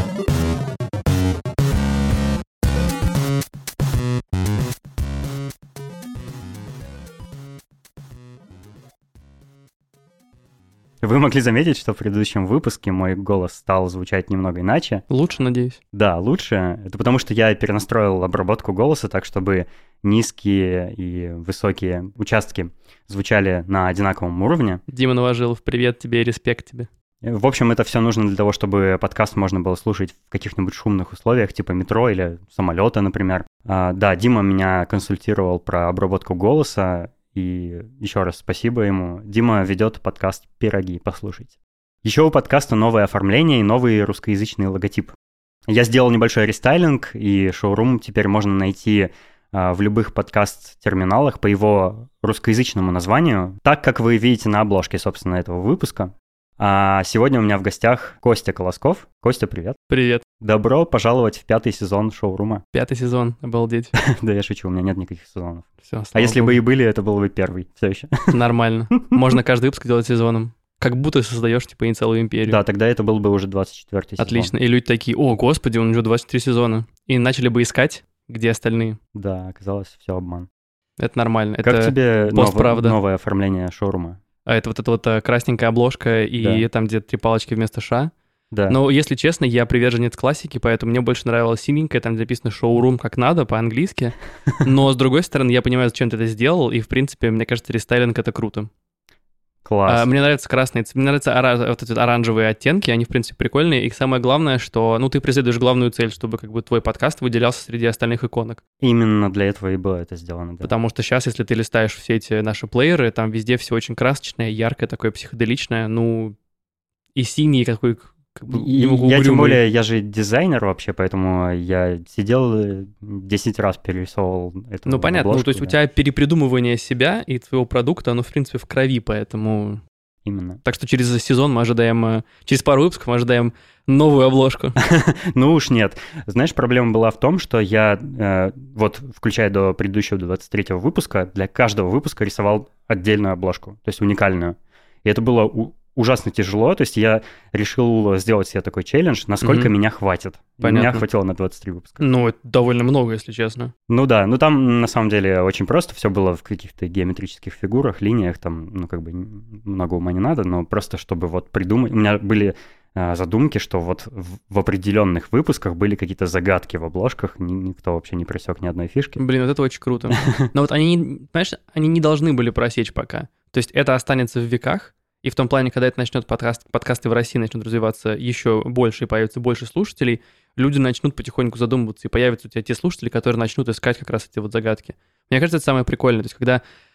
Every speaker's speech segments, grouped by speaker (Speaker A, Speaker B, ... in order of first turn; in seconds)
Speaker A: 11.0-15.0, 15.9-24.8, 27.2-41.5, 42.0-45.1, 45.7-59.8, 60.4-62.6, 63.9-68.3, 72.5-74.5, 79.1-80.5, 81.6-84.2, 86.4-86.7, 88.5-88.8, 99.6-100.1, 108.8-110.7, 118.5-125.8, 130.2-130.6, 134.8-152.0, 153.9-169.2, 170.1-170.5
Speaker B: 15.1-15.8, 24.9-26.9, 59.9-60.2, 62.7-63.9, 65.8-66.6, 68.3-72.6, 74.2-79.0, 81.0-83.0, 84.5-88.1, 88.7-98.7, 99.9-108.6, 110.6-116.3, 117.1-119.6, 124.8-129.8, 130.6-134.7, 149.4-149.7, 150.6-151.0, 152.0-153.7, 169.2-186.6